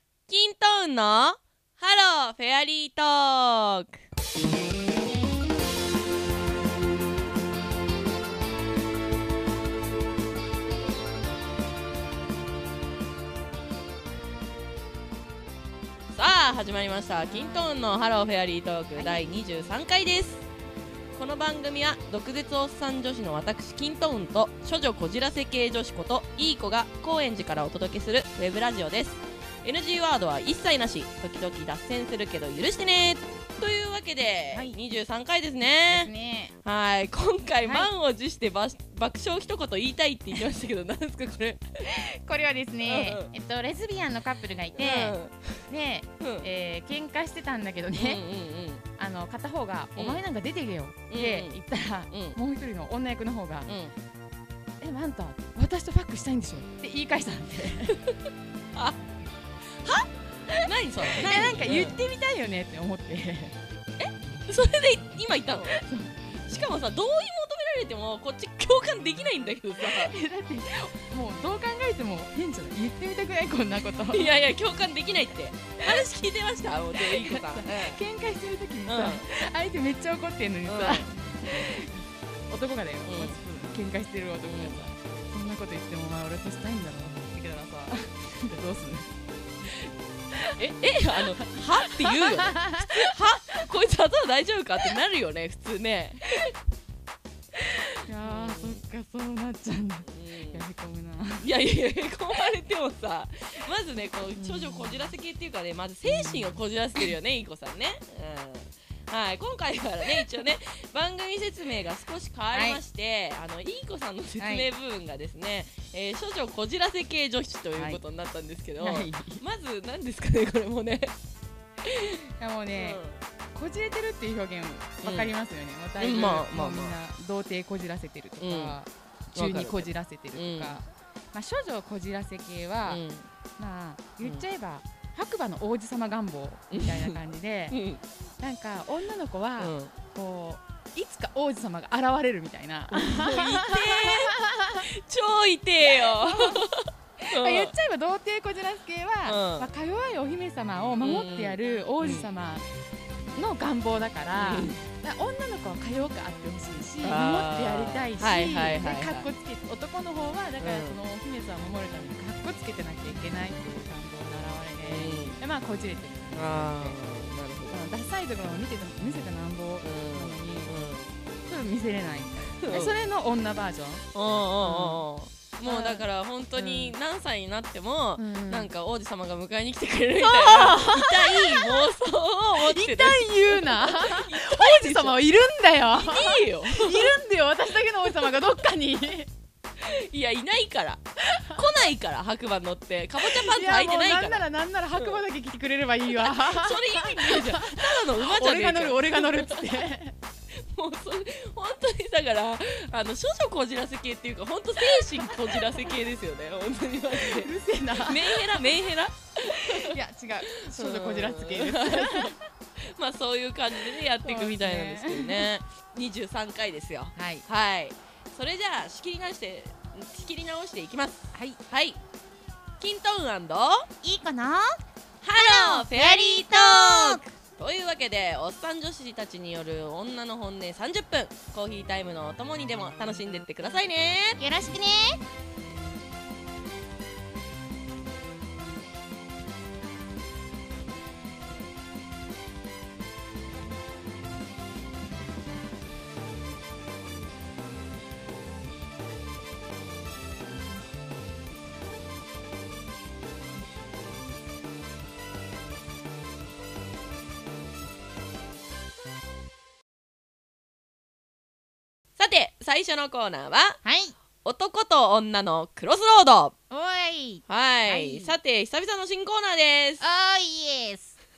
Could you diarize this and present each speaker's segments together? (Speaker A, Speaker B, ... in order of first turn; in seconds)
Speaker A: 0.3-4.0, 16.1-20.5, 21.1-36.1, 36.6-41.6, 42.8-43.3, 44.8-45.6, 46.2-46.5, 48.0-48.9, 51.1-51.6, 52.1-52.4, 53.7-53.9, 58.1-59.0, 59.8-62.0, 64.0-65.8, 66.5-70.2, 74.1-78.0, 78.9-79.2, 80.7-81.1, 83.1-83.4, 84.5-84.8, 90.4-96.5, 98.2-98.8, 100.1-100.6, 101.4-121.2, 121.8-122.2, 122.7-123.2, 125.0-125.3, 126.0-127.0, 128.4-128.8, 129.3-130.8, 132.9-133.3, 136.7-137.2, 137.7-138.0, 139.6-139.9, 142.9-147.7, 149.2-149.7, 151.0-152.3, 154.3-154.8, 157.0-159.3, 160.6-161.0, 164.8-165.4, 166.3-167.8, 169.8-171.1, 172.6-173.0, 174.1-185.2, 185.9-187.1, 189.8-195.2, 196.1-199.9, 200.5-210.0, 210.6-222.0, 222.8-223.9, 225.2-234.4, 262.2-263.8, 264.4-266.6, 267.5-270.0
Speaker B: 17.3-17.7, 19.0-19.7, 35.9-36.5, 37.6-37.9, 41.9-45.2, 45.7-48.2, 49.0-53.7, 54.8-58.0, 61.0-63.6, 65.7-66.1, 69.8-74.3, 76.9-89.1, 91.2-93.6, 98.0-101.5, 104.4-105.0, 106.1-106.5, 112.5-112.8, 114.4-114.7, 117.8-118.0, 118.8-119.4, 122.4-123.0, 123.5-133.0, 133.6-137.8, 138.4-144.9, 145.9-152.7, 153.3-167.0, 167.7-170.8, 171.4-174.1, 174.6-175.1, 175.6-176.1, 176.6-176.9, 178.2-178.7, 180.2-181.9, 182.5-189.3, 191.3-191.6, 193.2-200.2, 204.8-205.7, 207.1-208.6, 209.4-212.4, 214.2-215.5, 217.2-217.5, 221.3-221.6, 224.0-224.8, 225.3-227.3, 234.4-235.2, 263.8-264.1, 266.7-268.3, 270.0-271.2